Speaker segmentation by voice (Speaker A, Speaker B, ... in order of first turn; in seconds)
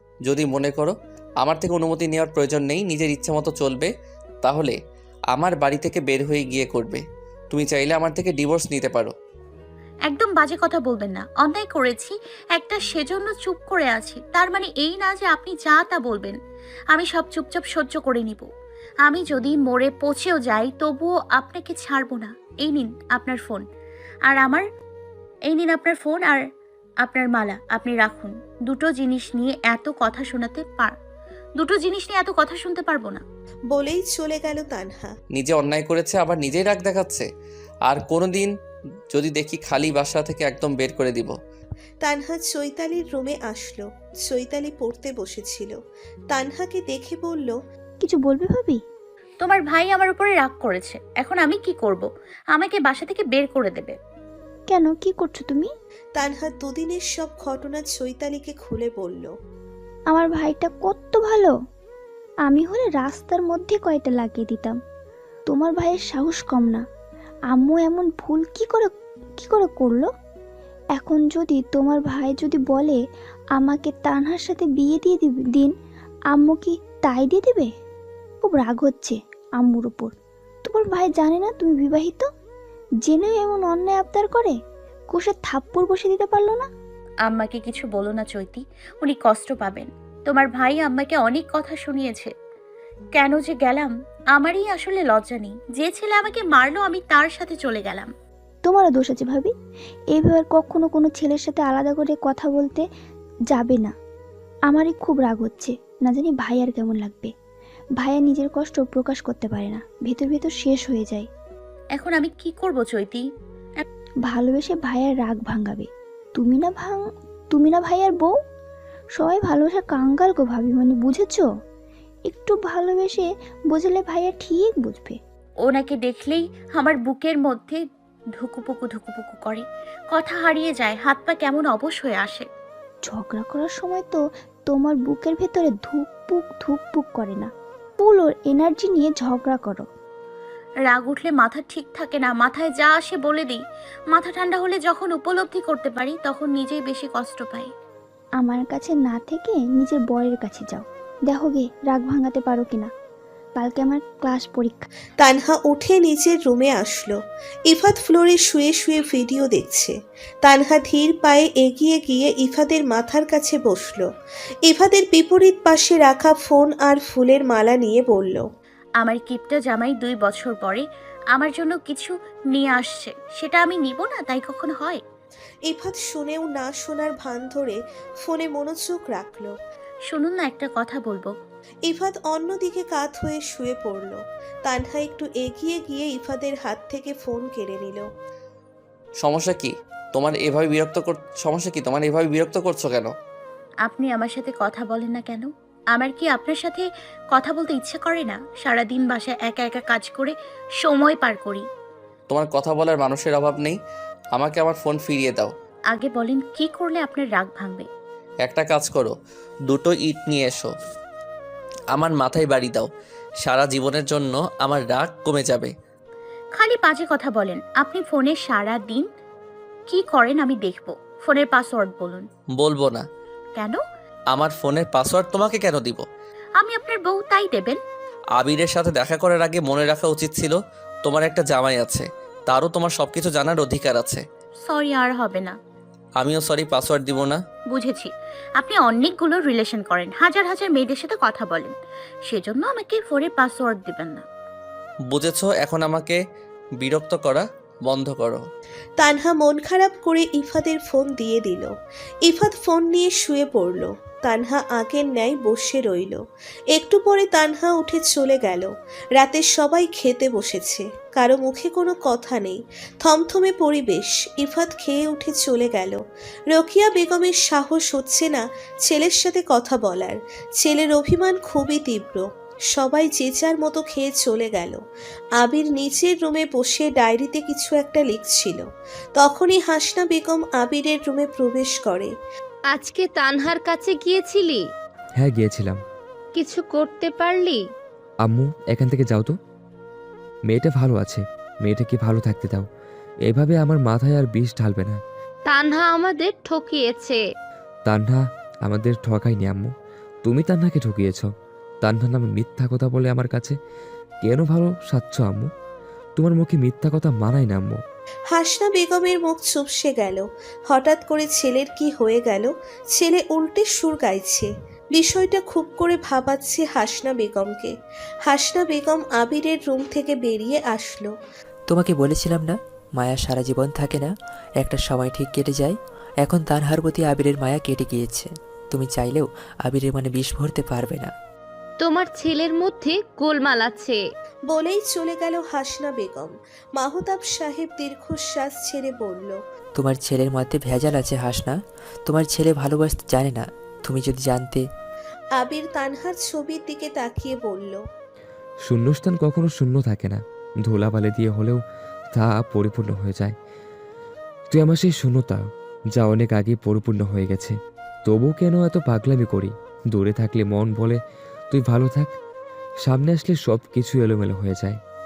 Speaker A: 0.3-3.9, 4.4-4.8, 5.3-9.1, 35.3-37.3, 37.9-38.5, 39.1-41.4, 189.2-193.1, 202.3-203.8, 204.3-205.5, 208.4-209.2, 209.7-210.7, 211.9-212.9, 213.4-215.7, 222.6-223.1, 224.3-226.1, 228.4-234.2, 236.2-237.4, 245.1-246.2, 246.8-248.4
Speaker B: 10.1-16.4, 16.9-18.5, 19.1-23.6, 24.3-24.6, 25.5-26.4, 27.0-31.0, 31.6-33.2, 49.4-54.0, 87.3-92.3, 93.2-98.1, 112.0-113.3, 125.7-127.8, 128.4-132.5, 140.9-147.7, 169.0-175.0, 180.1-181.3, 193.9-201.7, 205.9-207.9, 216.6-219.1, 219.9-222.2, 226.6-227.8, 234.7-235.6, 237.7-241.8, 242.3-244.2
Speaker C: 33.7-35.1, 42.0-45.8, 46.3-47.6, 56.2-59.3, 155.2-164.1, 164.7-168.4, 175.7-179.5, 181.9-188.1, 249.0-251.7, 252.3-256.2, 256.7-274.8, 275.4-278.6, 279.2-282.1, 308.3-317.7, 318.3-321.1, 334.5-339.4, 345.4-347.8
Speaker D: 48.0-48.8, 54.7-55.7, 60.1-61.5, 62.5-64.8, 65.5-66.8, 67.5-70.1, 71.0-73.0, 73.6-75.7, 76.3-77.7, 78.4-80.1, 80.7-82.3, 83.0-84.6, 85.1-86.7, 98.7-99.5, 100.2-102.8, 103.5-103.9, 104.7-107.3, 108.0-111.3, 114.3-117.0, 117.5-118.3, 119.2-121.5, 122.3-125.2, 133.1-134.2, 134.7-139.9, 148.4-152.9, 153.6-154.9
Speaker E: 282.7-284.6, 286.4-287.6, 295.5-297.2, 331.8-333.9
Speaker F: 285.2-285.8, 288.2-289.4, 290.5-292.7, 293.3-295.0, 297.9-299.7, 300.2-301.3, 301.8-303.6, 304.2-305.5, 306.2-307.8, 348.7-351.6, 352.1-353.4, 354.5-355.4, 356.0-361.0, 361.5-362.1, 362.8-364.8
Speaker G: 321.7-331.1, 339.8-344.7